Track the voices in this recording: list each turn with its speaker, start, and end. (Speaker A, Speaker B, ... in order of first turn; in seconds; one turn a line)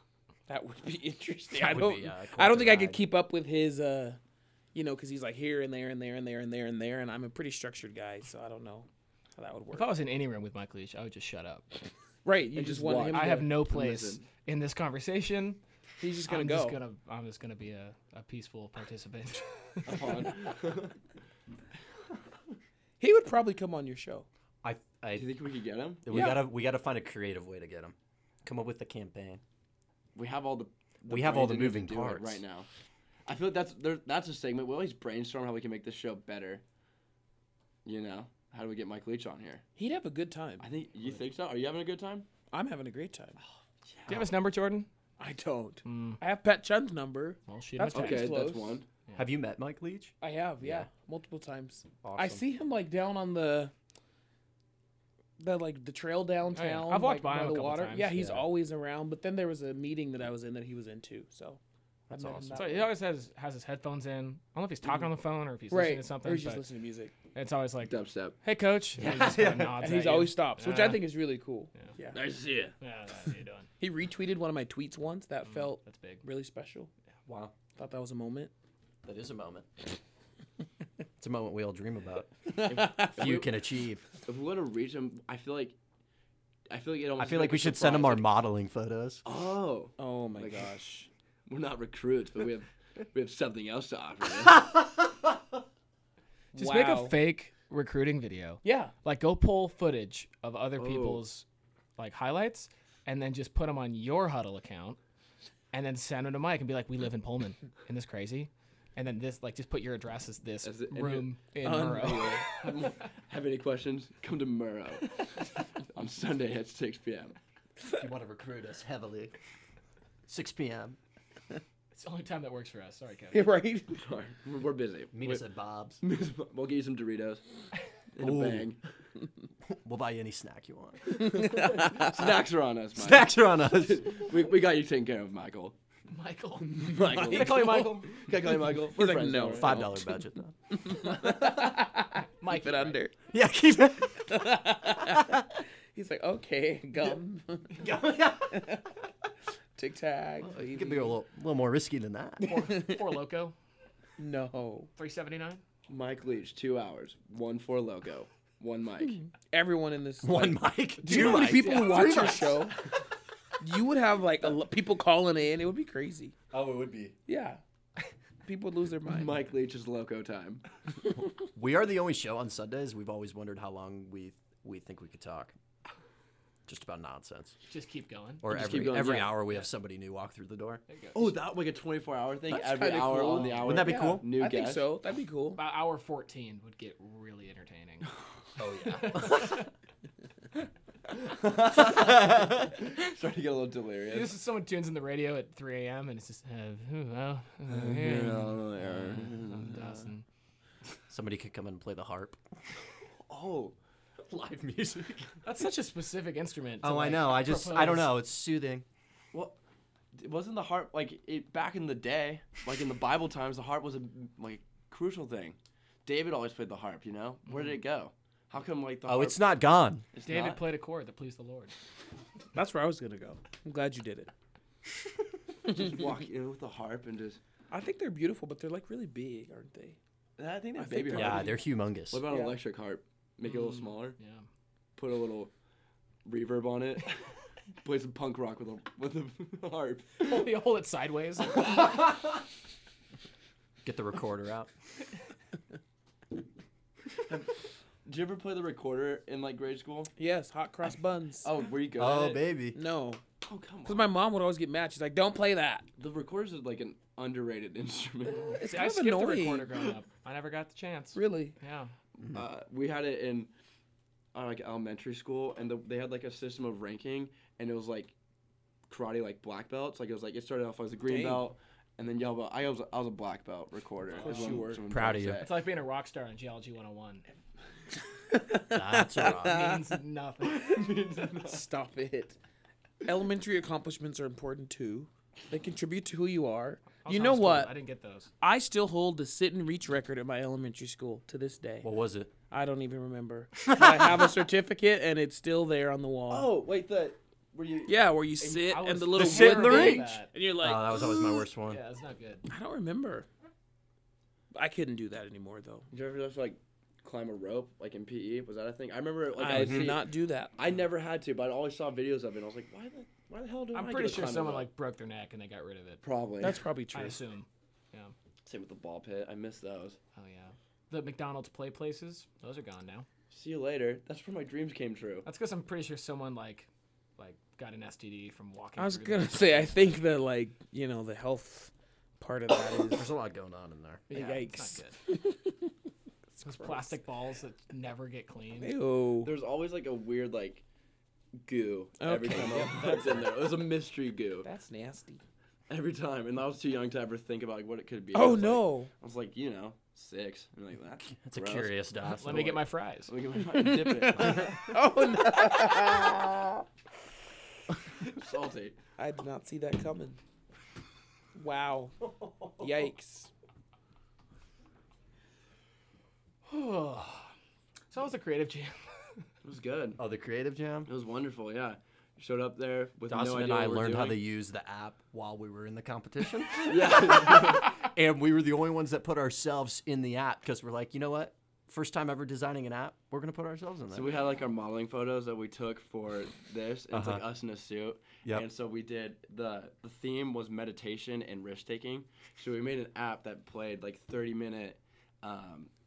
Speaker A: 0.5-4.2
Speaker B: 1.5-3.0
Speaker A: 4.7-9.9
Speaker C: 9.7-11.7
Speaker A: 12.2-13.6
Speaker D: 12.6-14.2
Speaker C: 13.1-15.6
Speaker A: 16.0-16.8
Speaker C: 16.2-20.3
Speaker D: 19.9-20.9
Speaker A: 23.0-24.3
Speaker B: 24.6-25.3
Speaker D: 25.1-26.1
Speaker B: 26.1-29.4
Speaker A: 26.1-26.4
Speaker D: 30.1-32.7
Speaker B: 31.1-32.4
Speaker D: 33.3-36.6
Speaker D: 37.9-39.6
Speaker A: 39.8-40.7
Speaker D: 40.6-42.3
Speaker A: 42.5-43.4
Speaker D: 43.4-44.3
Speaker C: 44.1-44.9
Speaker A: 45.2-48.8
Speaker C: 45.9-46.2
Speaker C: 47.5-48.3
Speaker D: 47.9-48.9
Speaker B: 49.1-50.9
Speaker A: 50.2-53.7
Speaker B: 52.0-52.4
Speaker A: 55.4-61.6
Speaker C: 56.5-58.2
Speaker B: 58.1-58.5
Speaker A: 62.1-62.9
Speaker B: 62.1-62.7
Speaker C: 62.5-66.6
Speaker A: 65.7-67.1
Speaker C: 67.3-71.1
Speaker D: 67.8-68.3
Speaker B: 69.0-69.8
Speaker A: 69.8-72.2
Speaker D: 72.1-72.7
Speaker C: 72.8-73.7
Speaker A: 73.8-76.9
Speaker C: 75.5-76.2
Speaker D: 77.3-77.5
Speaker A: 77.8-78.5
Speaker B: 79.0-79.7
Speaker B: 81.2-84.1
Speaker A: 82.5-83.4
Speaker D: 82.7-83.5
Speaker D: 84.3-85.7
Speaker D: 86.7-88.3
Speaker B: 87.2-89.2
Speaker D: 89.2-90.7
Speaker A: 90.0-91.1
Speaker D: 91.5-94.7
Speaker B: 94.4-95.1
Speaker A: 96.5-97.2
Speaker C: 96.5-101.5
Speaker A: 98.6-98.9
Speaker D: 100.8-101.2
Speaker C: 102.0-105.0
Speaker C: 105.7-112.7
Speaker D: 110.6-111.3
Speaker A: 111.6-112.5
Speaker D: 112.0-115.1
Speaker D: 115.9-117.3
Speaker B: 117.9-119.3
Speaker B: 120.3-121.0
Speaker C: 121.9-123.5
Speaker A: 123.3-124.0
Speaker D: 124.0-125.5
Speaker B: 125.1-126.0
Speaker D: 126.0-127.4
Speaker D: 128.1-128.8
Speaker B: 128.2-128.7
Speaker B: 129.7-131.8
Speaker A: 131.1-132.3
Speaker D: 131.9-135.7
Speaker B: 132.9-134.2
Speaker C: 136.1-138.1
Speaker A: 136.8-138.2
Speaker D: 136.9-139.9
Speaker A: 138.8-140.1
Speaker B: 139.5-141.4
Speaker A: 140.7-143.2
Speaker C: 142.4-143.0
Speaker B: 143.3-144.4
Speaker A: 144.2-147.9
Speaker B: 145.2-145.4
Speaker B: 147.8-148.7
Speaker A: 148.5-148.9
Speaker A: 149.8-151.2
Speaker B: 150.4-152.4
Speaker A: 152.4-153.2
Speaker C: 152.4-153.6
Speaker A: 154.2-154.9
Speaker C: 155.0-155.6
Speaker D: 155.9-159.2
Speaker A: 159.5-162.8
Speaker B: 160.2-162.7
Speaker D: 161.1-162.1
Speaker A: 163.6-166.3
Speaker B: 166.5-167.2
Speaker A: 167.3-167.6
Speaker A: 168.4-169.4
Speaker D: 169.1-170.6
Speaker B: 171.5-175.6
Speaker B: 176.7-177.6
Speaker C: 177.7-178.8
Speaker B: 178.4-180.8
Speaker D: 178.5-179.4
Speaker C: 180.9-181.3
Speaker D: 181.2-184.8
Speaker A: 182.5-185.6
Speaker B: 183.6-184.3
Speaker C: 185.6-188.1
Speaker B: 188.6-189.6
Speaker C: 188.8-189.7
Speaker D: 191.1-194.3
Speaker C: 194.1-200.2
Speaker D: 197.7-199.8
Speaker B: 201.1-202.4
Speaker D: 203.3-203.8
Speaker B: 204.2-205.3
Speaker C: 205.4-208.2
Speaker B: 206.8-208.8
Speaker D: 210.1-219.4
Speaker B: 219.1-220.1
Speaker D: 220.1-220.6
Speaker C: 220.2-221.7
Speaker A: 222.5-224.3
Speaker D: 225.7-227.4
Speaker A: 227.7-230.0
Speaker D: 230.4-231.5
Speaker A: 230.8-231.6
Speaker B: 231.2-232.2
Speaker D: 232.1-234.2
Speaker A: 232.3-232.6
Speaker C: 234.2-234.4
Speaker D: 234.9-235.5
Speaker D: 236.2-237.3
Speaker D: 237.8-240.4
Speaker C: 240.2-241.9
Speaker B: 243.8-244.7
Speaker D: 247.2-250.1
Speaker A: 250.2-251.5
Speaker D: 251.4-252.4
Speaker B: 251.9-252.8
Speaker A: 252.7-253.2
Speaker D: 253.4-254.1
Speaker A: 253.8-255.9
Speaker D: 256.0-258.6
Speaker C: 258.5-261.9
Speaker A: 258.6-259.9
Speaker A: 261.1-261.6
Speaker D: 262.2-263.5
Speaker D: 264.3-268.1
Speaker D: 268.9-275.5
Speaker A: 271.1-271.4
Speaker A: 274.2-274.8
Speaker C: 274.2-274.4
Speaker B: 274.9-275.4
Speaker C: 275.4-277.3
Speaker A: 278.3-279.8
Speaker B: 278.7-279.8
Speaker C: 279.2-281.0
Speaker D: 280.4-281.6
Speaker A: 281.4-282.4
Speaker A: 283.0-287.7
Speaker C: 287.0-288.3
Speaker A: 288.4-291.9
Speaker B: 291.8-292.3
Speaker A: 292.5-296.5
Speaker B: 293.6-294.4
Speaker D: 296.3-298.8
Speaker A: 297.9-301.5
Speaker C: 298.7-300.3
Speaker B: 299.1-301.8
Speaker C: 301.7-302.5
Speaker A: 302.5-303.3
Speaker A: 304.5-305.9
Speaker D: 305.9-310.1
Speaker A: 309.4-310.5
Speaker B: 309.5-309.9
Speaker D: 310.6-314.7
Speaker C: 313.7-316.0
Speaker D: 316.0-316.6
Speaker A: 316.4-317.2
Speaker C: 316.9-318.1
Speaker D: 318.4-320.0
Speaker C: 320.2-323.1
Speaker D: 323.3-325.3
Speaker C: 325.2-329.9
Speaker A: 328.8-333.1
Speaker B: 332.9-334.1
Speaker C: 334.1-335.0
Speaker A: 334.1-335.7
Speaker A: 336.4-336.9
Speaker C: 336.4-338.7
Speaker A: 338.6-339.3
Speaker D: 339.2-340.6
Speaker D: 341.4-344.5
Speaker A: 342.0-343.3
Speaker A: 344.4-345.2
Speaker D: 345.7-351.7
Speaker A: 348.1-348.9
Speaker B: 351.1-352.6
Speaker C: 352.0-353.1
Speaker D: 353.1-354.6
Speaker A: 353.4-356.6
Speaker B: 354.2-354.5
Speaker D: 358.0-358.8
Speaker A: 359.0-360.2
Speaker A: 361.4-363.3
Speaker C: 366.4-367.3
Speaker C: 367.9-368.8
Speaker D: 369.4-370.0
Speaker B: 370.0-370.9
Speaker D: 370.9-374.2
Speaker B: 373.1-384.2
Speaker D: 376.6-377.7
Speaker D: 383.9-395.7
Speaker B: 386.9-387.2